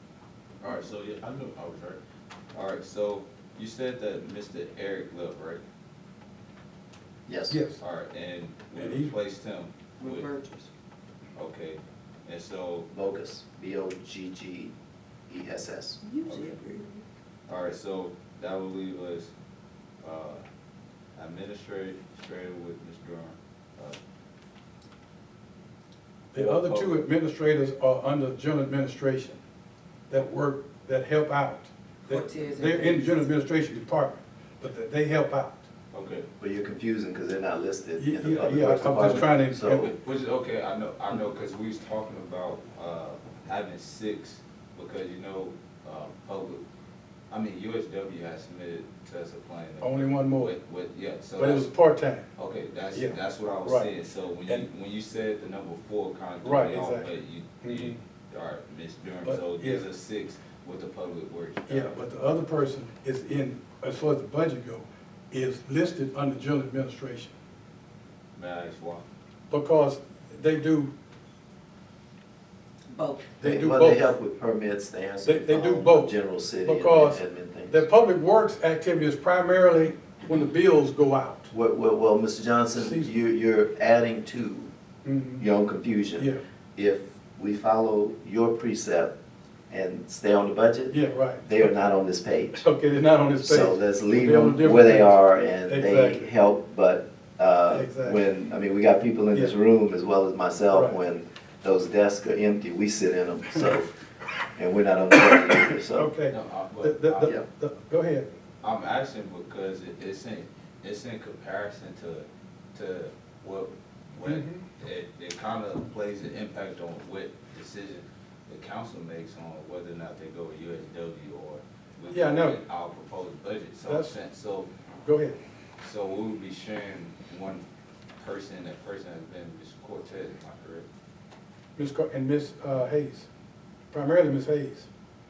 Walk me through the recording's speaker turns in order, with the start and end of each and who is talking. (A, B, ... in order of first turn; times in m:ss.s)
0:00.6-0:02.0 A
0:02.5-0:05.6 A
0:07.3-0:07.6 B
0:07.5-0:07.8 C
0:07.8-0:10.3 A
0:08.8-0:09.1 C
0:10.0-0:10.7 D
0:11.4-0:12.9 A
0:12.9-0:14.7 B
0:15.3-0:16.0 B
0:16.0-0:17.0 D
0:16.2-0:16.6 A
0:17.5-0:19.3 A
0:20.0-0:20.4 A
0:21.2-0:24.0 A
0:26.3-0:29.4 C
0:26.3-0:27.0 A
0:30.1-0:35.7 C
0:32.0-0:33.3 D
0:35.9-0:36.3 A
0:36.4-0:39.9 B
0:38.0-0:39.9 C
0:39.0-0:46.6 A
0:47.3-0:51.7 A
0:49.8-0:50.6 C
0:51.4-0:52.3 C
0:52.4-1:02.0 A
0:52.9-0:53.9 C
0:56.4-0:57.1 C
0:57.6-0:58.0 C
0:59.2-0:59.9 C
1:01.7-1:07.3 C
1:08.4-1:09.0 A
1:09.5-1:10.9 C
1:12.9-1:13.4 D
1:13.4-1:14.1 C
1:13.4-1:17.8 B
1:15.2-1:21.5 C
1:21.5-1:24.7 B
1:22.7-1:23.1 C
1:25.0-1:25.5 C
1:25.4-1:29.1 B
1:29.7-1:32.7 B
1:30.9-1:31.7 C
1:32.6-1:36.3 C
1:33.4-1:43.9 B
1:37.7-1:38.2 C
1:40.7-1:41.0 C
1:44.6-1:46.1 B
1:45.9-1:48.3 C
1:46.3-1:47.3 A
1:48.6-2:04.7 A
1:54.2-1:54.6 C
2:02.1-2:02.6 C
2:03.9-2:04.2 C
2:05.0-2:05.4 C
2:05.8-2:07.6 A
2:08.2-2:10.9 A
2:11.8-2:13.3 C
2:13.9-2:14.9 C